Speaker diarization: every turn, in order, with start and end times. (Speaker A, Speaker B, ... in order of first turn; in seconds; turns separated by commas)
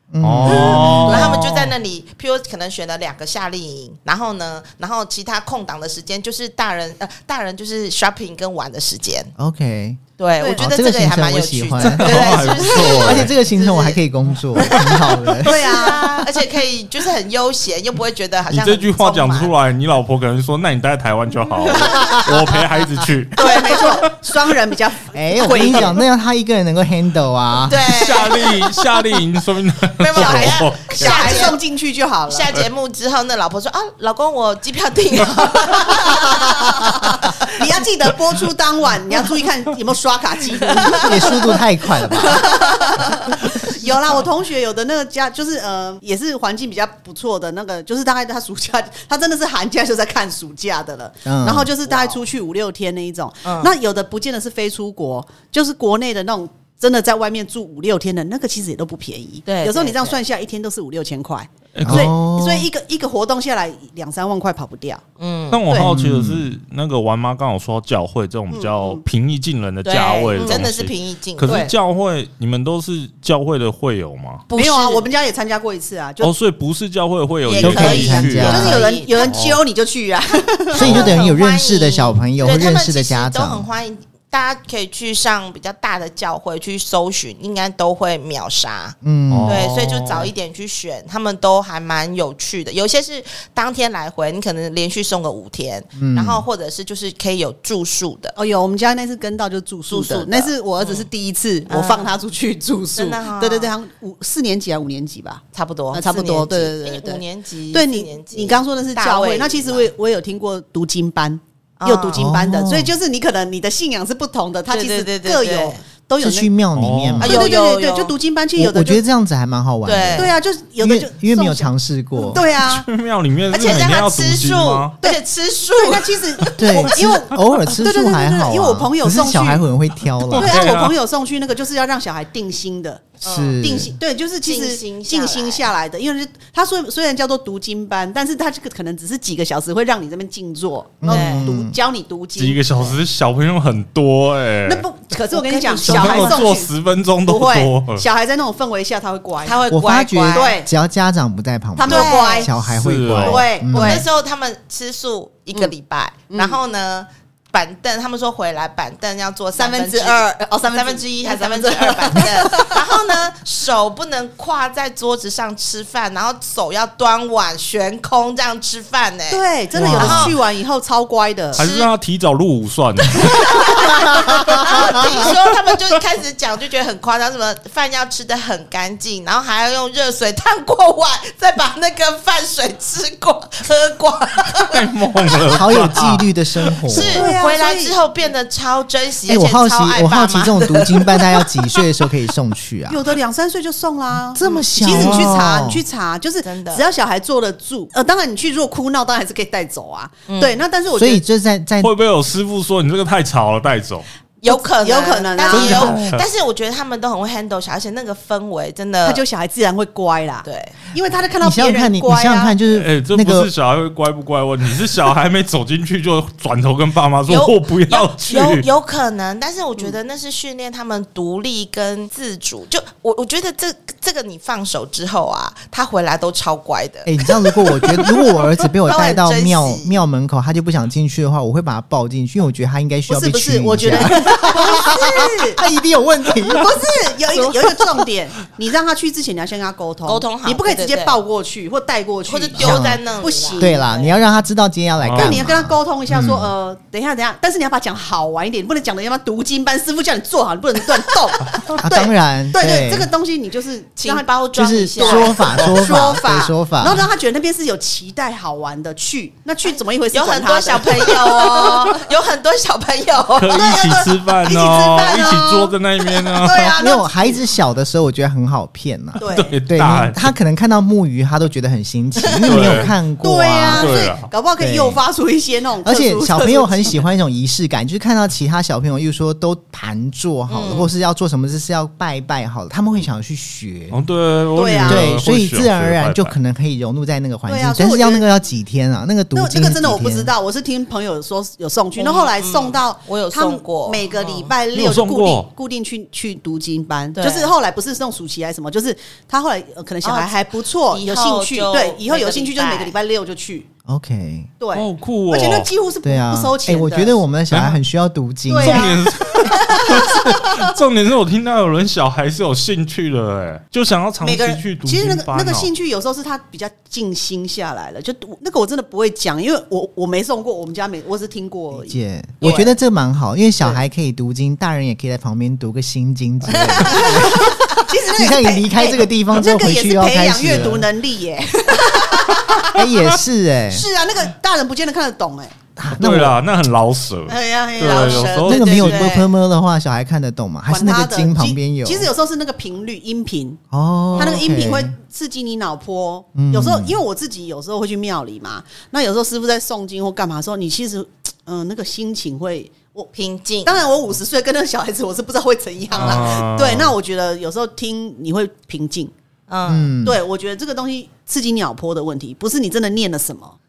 Speaker A: 0.1-1.4, Speaker B: 0.2-1.7, Speaker C: 0.5-9.3, Speaker D: 0.8-1.3, Speaker A: 9.4-15.9, Speaker C: 10.2-14.0, Speaker D: 10.4-10.7, Speaker B: 11.8-13.3, Speaker C: 14.6-19.5, Speaker B: 14.6-15.1, Speaker D: 15.4-16.2, Speaker B: 18.5-24.1, Speaker C: 21.6-22.6, Speaker D: 23.3-26.0, Speaker C: 23.4-23.9, Speaker A: 25.1-28.0, Speaker C: 27.7-28.7, Speaker B: 27.9-31.4, Speaker C: 30.0-31.6, Speaker D: 30.2-32.5, Speaker C: 32.3-37.4, Speaker D: 35.9-65.0, Speaker A: 40.9-42.5, Speaker A: 51.2-51.7, Speaker C: 53.5-53.7, Speaker C: 59.5-60.2, Speaker B: 61.7-62.1, Speaker A: 61.8-62.7, Speaker C: 65.2-65.6, Speaker B: 65.5-74.4, Speaker A: 65.7-66.5, Speaker D: 68.5-69.0, Speaker C: 69.8-71.7, Speaker D: 70.4-70.7, Speaker D: 71.5-71.7, Speaker C: 74.5-75.1, Speaker D: 74.5-76.3, Speaker B: 76.2-79.6, Speaker C: 77.5-79.3, Speaker D: 77.6-81.0, Speaker A: 77.6-78.9, Speaker A: 80.7-83.7, Speaker C: 80.8-98.3, Speaker B: 80.8-81.2, Speaker A: 89.0-89.7, Speaker B: 89.3-90.3, Speaker A: 96.0-96.4, Speaker D: 98.4-116.5, Speaker C: 99.9-101.1, Speaker C: 101.7-102.2, Speaker C: 102.9-103.7, Speaker C: 105.5-109.9, Speaker C: 111.8-112.2, Speaker A: 112.1-112.9, Speaker C: 114.7-115.8, Speaker A: 116.2-117.5, Speaker B: 116.7-117.4, Speaker C: 117.2-118.2, Speaker D: 117.2-119.0, Speaker A: 118.6-122.4, Speaker C: 119.8-120.3, Speaker D: 120.2-122.9, Speaker B: 122.4-124.9, Speaker C: 123.5-126.6, Speaker D: 125.8-129.7, Speaker A: 126.6-130.7, Speaker B: 130.2-130.9, Speaker D: 130.4-143.0, Speaker C: 133.2-133.6, Speaker A: 133.2-133.9, Speaker C: 134.4-135.7, Speaker A: 141.0-141.8, Speaker C: 141.1-141.5, Speaker B: 142.4-144.9, Speaker D: 144.7-146.7, Speaker C: 145.4-146.5, Speaker B: 145.8-148.0, Speaker D: 147.2-149.7, Speaker C: 149.4-150.6, Speaker A: 149.7-154.1, Speaker D: 150.3-150.7, Speaker D: 151.8-152.5, Speaker C: 151.8-152.5, Speaker B: 152.6-153.5, Speaker D: 153.2-154.1, Speaker C: 153.7-169.4, Speaker D: 156.3-156.6, Speaker D: 159.6-163.1, Speaker D: 169.3-171.7, Speaker B: 169.8-170.3, Speaker C: 170.0-170.3, Speaker C: 171.6-171.9, Speaker B: 171.6-173.9, Speaker C: 173.1-185.8, Speaker D: 174.1-174.7, Speaker B: 174.6-175.4, Speaker B: 184.6-186.3, Speaker A: 185.5-187.3, Speaker C: 186.9-191.9, Speaker D: 186.9-188.0, Speaker A: 189.3-193.0, Speaker D: 192.9-201.2, Speaker A: 194.3-195.8, Speaker C: 194.4-195.3, Speaker C: 196.4-196.8, Speaker C: 200.3-200.6, Speaker A: 200.9-201.9, Speaker B: 201.8-204.1, Speaker C: 204.4-209.2, Speaker D: 204.4-206.0, Speaker B: 205.5-206.2, Speaker D: 209.0-212.6, Speaker C: 210.4-210.8, Speaker A: 211.4-213.5, Speaker B: 212.7-218.7, Speaker C: 217.3-228.3, Speaker A: 227.1-237.8, Speaker C: 228.9-230.0, Speaker D: 233.1-235.6, Speaker D: 236.5-243.9, Speaker C: 240.1-241.2, Speaker C: 242.3-244.2, Speaker A: 242.6-243.1, Speaker A: 243.6-246.5, Speaker B: 245.0-245.4, Speaker D: 245.2-254.3, Speaker A: 251.7-253.1, Speaker C: 254.0-256.0, Speaker A: 254.6-257.0, Speaker D: 255.0-261.9, Speaker C: 259.7-263.6, Speaker B: 263.4-266.8, Speaker D: 263.5-267.4, Speaker A: 266.8-275.0, Speaker D: 269.2-269.6, Speaker B: 269.2-270.3, Speaker C: 272.3-272.9, Speaker B: 272.5-272.9, Speaker D: 273.2-277.0, Speaker B: 273.7-274.3, Speaker A: 275.8-284.0, Speaker C: 280.5-280.9, Speaker B: 283.9-286.4, Speaker D: 284.6-285.1, Speaker A: 284.8-290.3, Speaker D: 287.5-288.3, Speaker D: 289.3-303.7, Speaker C: 292.0-294.5, Speaker B: 294.7-295.5, Speaker C: 297.1-297.5, Speaker C: 300.0-300.4, Speaker C: 300.9-302.9, Speaker A: 303.9-304.5, Speaker D: 304.6-307.2, Speaker B: 304.7-305.7, Speaker A: 306.0-309.0, Speaker B: 307.5-307.8, Speaker D: 308.5-310.6, Speaker B: 308.6-315.7, Speaker D: 314.2-322.7, Speaker A: 321.7-330.9, Speaker C: 322.4-322.7, Speaker C: 326.5-327.5, Speaker D: 326.8-332.8, Speaker A: 332.7-333.9, Speaker D: 333.7-335.6, Speaker A: 335.8-336.4, Speaker B: 335.9-339.1, Speaker D: 337.3-338.6, Speaker C: 337.8-339.3, Speaker A: 338.4-342.1, Speaker D: 340.7-343.6, Speaker A: 343.7-344.9, Speaker C: 344.1-344.5, Speaker D: 344.2-353.1, Speaker A: 346.4-347.0, Speaker C: 353.1-353.8, Speaker D: 353.6-359.1, Speaker B: 355.9-356.9, Speaker C: 359.5-359.9, Speaker A: 359.6-360.2, Speaker D: 360.0-363.6